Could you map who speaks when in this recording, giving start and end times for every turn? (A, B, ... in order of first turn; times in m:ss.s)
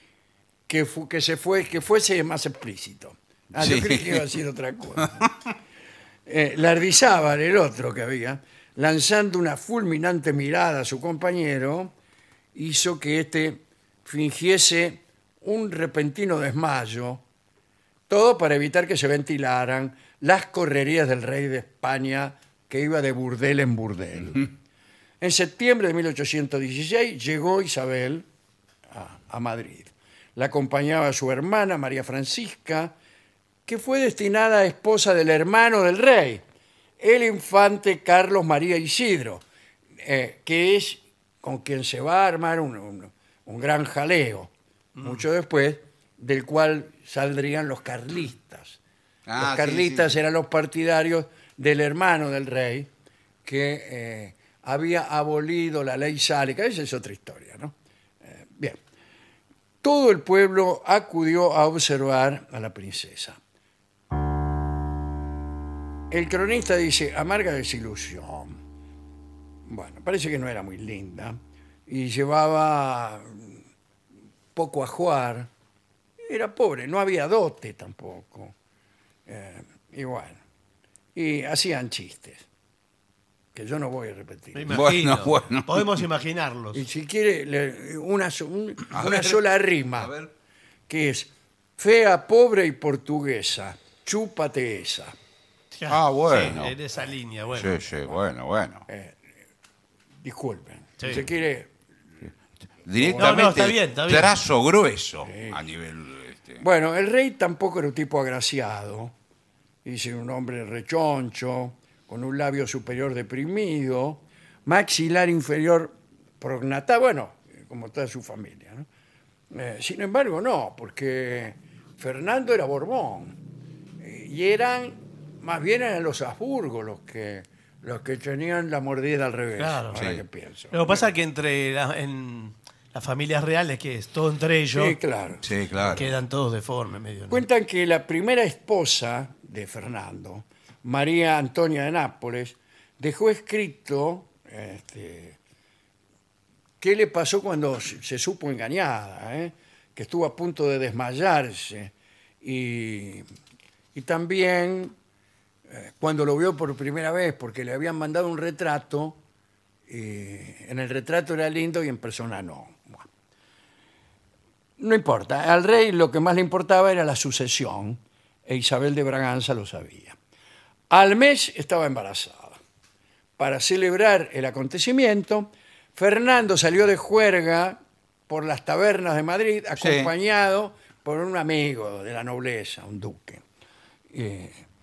0:00.7-0:05.3 A
0:03.6-0:04.2 B
0:05.0-0:05.3 B
0:06.2-0:11.9 A
0:12.5-0:17.2 A
0:18.1-0:24.5 A
0:25.2-0:28.2 A
0:28.9-0:32.9 A
0:33.6-0:36.4 A
0:37.0-0:39.4 A
0:40.0-0:48.8 A
0:49.3-0:50.2 B
0:49.4-0:52.9 A
0:53.4-0:58.8 A
0:59.8-1:03.4 A
1:06.1-1:08.6 A
1:09.7-1:13.6 A
1:14.5-1:15.5 A
1:16.2-1:18.5 A
1:19.3-1:20.4 A
1:21.1-1:22.4 A
1:23.5-1:24.8 A
1:24.5-1:26.8 C
1:24.7-1:26.0 B
1:26.7-1:30.1 A
1:28.9-1:29.4 B
1:30.0-1:30.3 B
1:30.9-1:35.1 A
1:35.7-1:37.8 C
1:35.9-1:36.8 B
1:37.5-1:38.9 B
1:38.9-1:39.2 A
1:40.2-1:41.7 A
1:42.8-1:46.6 B
1:43.0-1:43.6 A
1:43.2-1:44.3 C
1:45.2-1:45.6 A
1:46.6-1:49.1 A
1:49.8-1:58.9 A
1:59.5-2:03.4 A
2:04.0-2:11.1 A
2:09.6-2:10.0 C
2:09.9-2:10.2 B
2:10.7-2:15.0 C
2:14.7-2:15.4 A
2:15.4-2:16.1 B
2:15.9-2:17.4 C
2:17.3-2:25.4 A
2:26.8-2:33.2 A
2:33.9-2:34.9 A
2:35.7-2:39.2 A
2:39.9-2:43.0 A
2:44.8-2:50.2 A
2:50.9-2:52.6 A
2:53.4-2:57.8 A
2:58.3-3:03.4 A
2:59.8-3:00.1 B
3:04.1-3:04.6 A